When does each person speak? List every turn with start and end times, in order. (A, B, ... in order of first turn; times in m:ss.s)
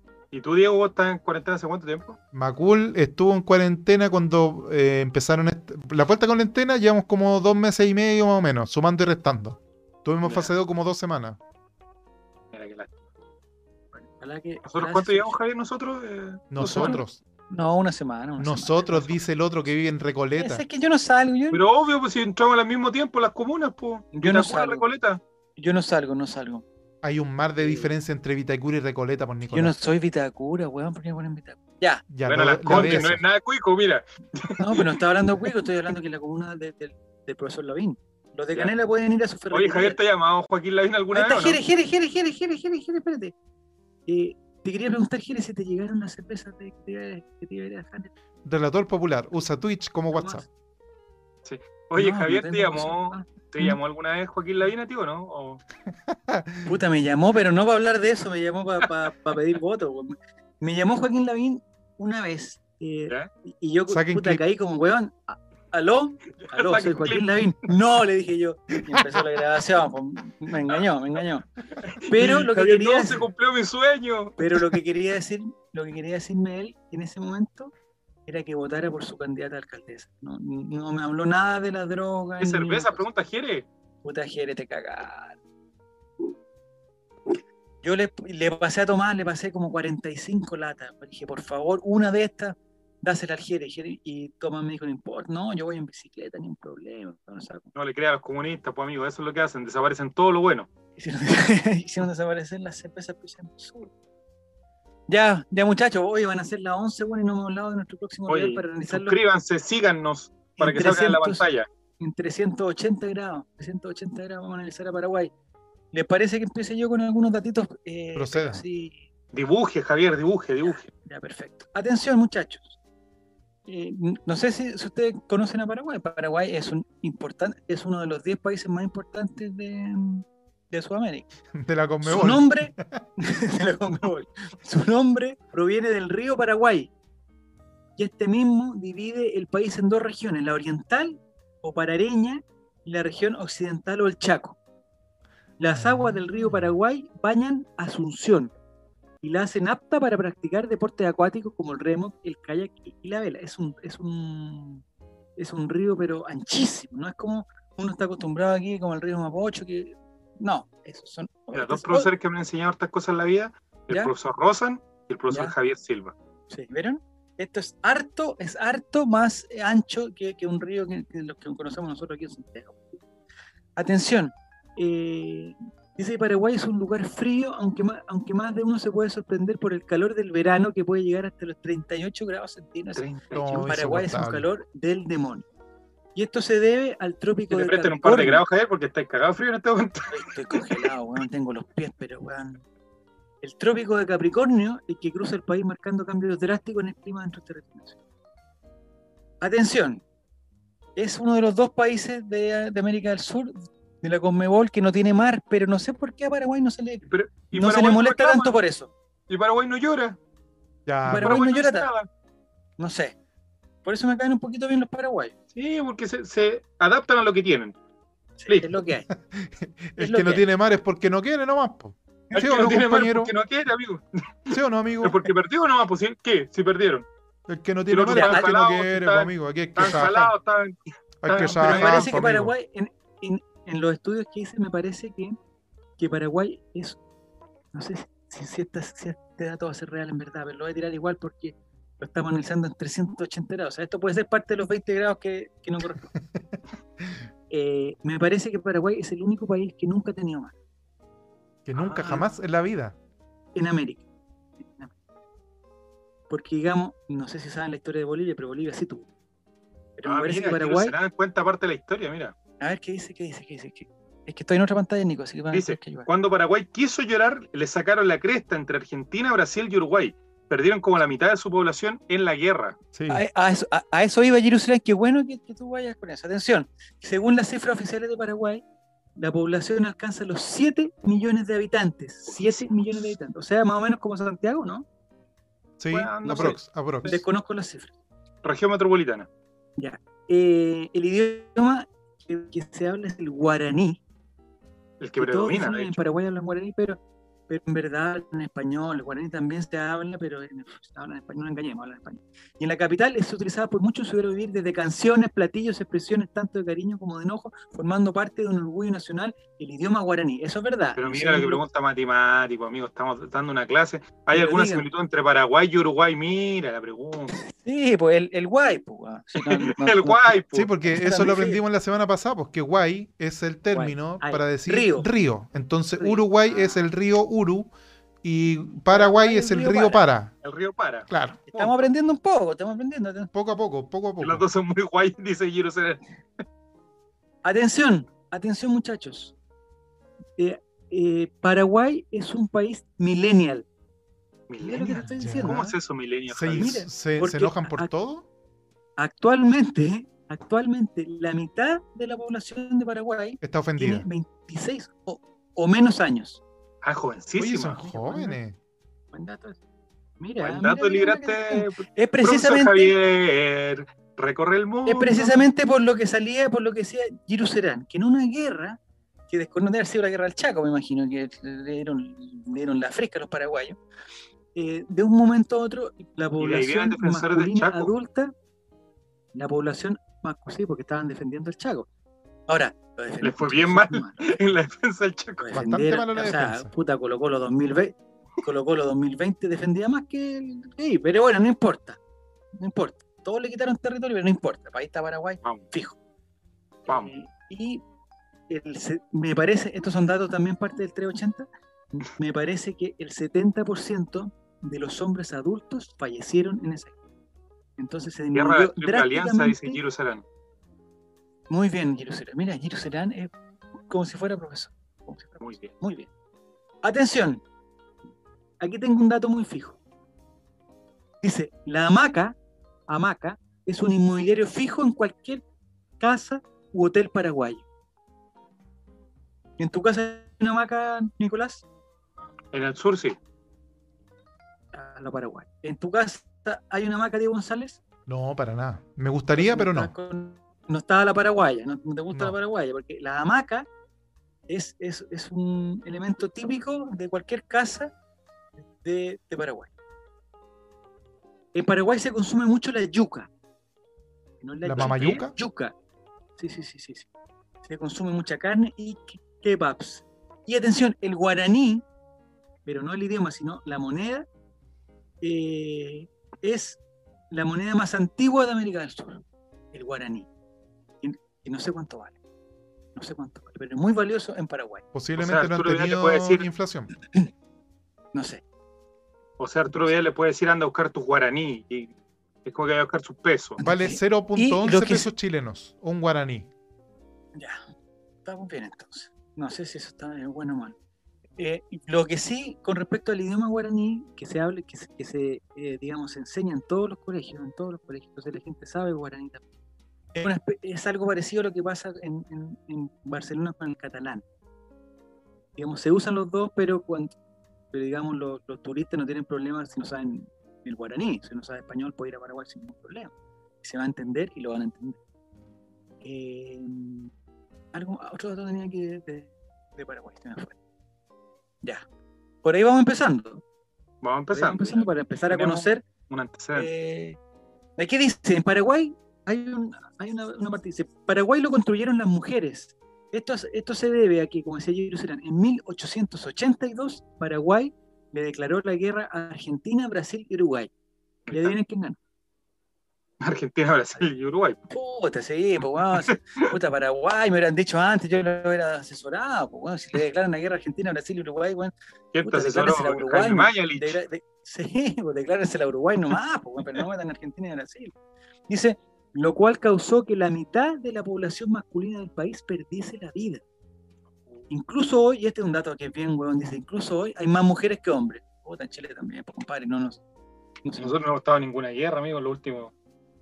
0:00.3-0:02.2 A
0:02.3-0:11.4 B
0:10.2-0:10.5 A
0:12.5-0:13.0 A
0:13.9-0:15.4 C
0:14.6-0:17.0 A
0:16.5-0:17.2 B
0:16.6-0:19.2 C
0:18.4-0:20.6 B
0:20.4-0:21.6 C
0:21.5-0:25.2 A
0:24.1-0:24.8 C
0:25.6-0:26.6 C
0:27.0-0:29.7 B
0:27.6-0:27.9 C
0:29.5-0:32.0 C
0:32.1-0:33.2 B
0:32.2-0:34.9 A
0:32.7-0:33.1 C
0:34.6-0:40.0 C
0:39.5-0:41.6 A
0:41.1-0:43.3 C
0:44.1-0:48.1 C
0:48.4-0:50.4 B
0:50.1-0:50.5 C
0:51.4-0:55.6 A
0:52.0-0:53.8 C
0:55.9-0:56.7 B
0:56.6-1:11.4 C
1:03.9-1:04.4 B
1:06.4-1:07.7 A
1:11.8-1:14.4 A
1:12.1-1:13.3 C
1:14.4-1:17.7 C
1:18.2-1:23.0 C
1:22.4-1:23.6 A
1:24.0-1:25.4 C
1:27.8-1:37.7 C
1:37.7-1:40.7 A
1:41.0-1:43.9 C
1:45.1-1:49.2 C
1:48.3-1:51.7 A
1:50.6-1:51.4 C
1:52.0-1:55.3 C
1:55.9-1:59.0 C
1:58.1-1:58.6 B
1:59.3-2:00.9 A
2:00.7-2:02.8 C
2:03.6-2:11.3 C
2:11.5-2:13.0 B
2:12.0-2:16.9 C
2:18.0-2:24.6 C
2:25.6-2:28.5 C
2:25.7-2:26.6 B
2:29.2-2:34.8 C
2:35.4-2:42.1 C
2:41.5-2:46.1 A
2:46.5-2:52.8 C
2:53.8-3:05.4 C
3:03.0-3:03.5 A
3:03.3-3:04.5 B
3:06.1-3:08.4 C
3:07.5-3:10.9 A
3:10.1-3:12.6 C
3:13.4-3:18.0 C
3:19.4-3:20.0 C
3:21.0-3:28.9 C
3:27.1-3:28.5 A
3:29.3-3:30.2 A
3:30.8-3:31.4 B
3:31.0-3:31.9 C
3:31.1-3:32.1 A
3:32.8-3:33.1 C
3:33.8-3:35.3 C
3:35.5-3:37.7 A
3:38.4-3:39.1 C
3:38.5-3:38.7 A
3:39.1-3:43.3 B
3:40.0-3:40.4 C
3:42.3-3:47.0 A
3:44.5-3:45.2 B
3:47.5-3:50.3 B
3:47.9-3:52.2 A
3:48.1-3:48.5 C
3:51.2-3:52.5 B
3:51.3-3:55.4 C
3:56.0-3:57.0 C
3:57.7-4:06.1 C
4:06.3-4:07.2 B
4:07.5-4:10.5 C
4:11.6-4:12.9 B
4:11.8-4:12.0 A
4:12.0-4:12.2 C
4:13.5-4:14.0 C
4:14.6-4:14.9 C
4:16.3-4:19.1 C
4:20.0-4:20.9 C
4:20.0-4:22.3 A
4:22.6-4:26.1 C
4:25.5-4:32.8 A
4:32.9-4:33.2 B
4:33.1-4:38.6 C
4:39.2-4:44.8 C
4:42.3-4:43.0 A
4:45.8-4:47.2 B
4:45.9-4:47.2 A
4:46.4-4:47.9 C
4:48.4-4:49.3 A
4:49.8-4:54.0 C
4:55.0-4:56.0 A
4:55.2-5:11.6 C
5:11.0-5:17.4 A
5:14.3-5:14.9 C
5:17.3-5:21.6 C
5:19.4-5:20.7 A
5:20.5-5:27.7 B
5:23.7-5:25.1 C
5:26.0-5:26.8 C
5:28.2-5:30.3 B
5:28.9-5:30.0 C
5:30.4-5:31.1 A
5:31.1-5:31.6 B
5:31.5-5:33.3 C
5:33.3-5:34.4 B
5:34.2-5:36.0 A
5:37.4-5:39.3 C
5:40.4-5:43.6 C
5:44.5-5:46.8 A
5:44.6-5:45.6 C
5:45.2-5:45.7 B
5:46.3-5:48.2 B
5:46.5-5:47.9 C
5:49.0-5:56.4 C
5:53.4-5:54.0 B
5:56.8-5:57.8 A
5:57.4-5:58.6 B
5:57.7-5:58.4 C
5:59.1-5:59.6 C
6:00.2-6:02.9 C
6:00.4-6:05.4 A
6:04.8-6:08.8 C
6:09.3-6:13.8 C
6:14.5-6:18.3 C
6:16.4-6:17.9 A
6:19.3-6:21.9 C
6:22.5-6:24.3 C
6:23.2-6:25.5 A
6:25.4-6:32.0 C
6:25.5-6:26.7 B
6:32.6-6:36.0 C
6:36.8-6:37.8 C
6:38.5-6:46.9 C
6:47.8-6:49.8 C
6:48.3-6:50.2 A
6:51.5-6:53.3 C
6:53.9-6:56.1 C
6:55.4-6:55.7 A
6:56.8-6:57.4 C
6:58.6-6:59.8 C
7:01.2-7:02.3 C
7:02.9-7:05.4 C
7:06.0-7:07.6 C
7:09.6-7:11.6 C
7:12.5-7:13.2 A
7:14.7-7:17.8 C
7:18.1-7:19.9 B
7:19.3-7:23.7 C
7:24.5-7:27.9 C
7:28.6-7:29.7 C
7:31.5-7:33.3 C
7:34.4-7:35.7 C
7:34.6-7:35.3 B
7:36.4-7:37.1 C
7:37.6-7:41.8 C
7:42.6-7:44.3 C
7:45.2-7:46.8 C
7:47.3-7:50.3 C
7:51.0-7:52.2 C
7:52.9-7:54.8 C
7:54.9-7:56.9 B
7:55.2-7:56.4 A
7:58.1-7:58.4 C
7:59.4-8:01.9 A
8:02.4-8:03.6 A
8:03.6-8:05.1 C
8:03.6-8:06.5 B
8:07.3-8:07.6 C
8:08.2-8:10.8 C
8:11.4-8:19.4 C
8:20.1-8:24.2 C
8:25.6-8:27.1 C
8:27.7-8:35.0 C
8:36.0-8:37.1 C
8:37.7-8:40.5 C
8:42.4-8:43.4 C
8:44.0-8:46.7 A
8:44.3-8:45.8 C
8:46.5-8:47.2 C
8:47.8-9:00.7 C
9:01.3-9:01.5 A
9:01.3-9:02.0 C
9:03.2-9:04.6 A
9:04.7-9:11.7 C
9:12.1-9:14.0 A
9:12.2-9:17.9 C
9:18.5-9:23.4 C
9:24.5-9:30.0 C
9:30.6-9:31.0 C
9:30.8-9:32.7 A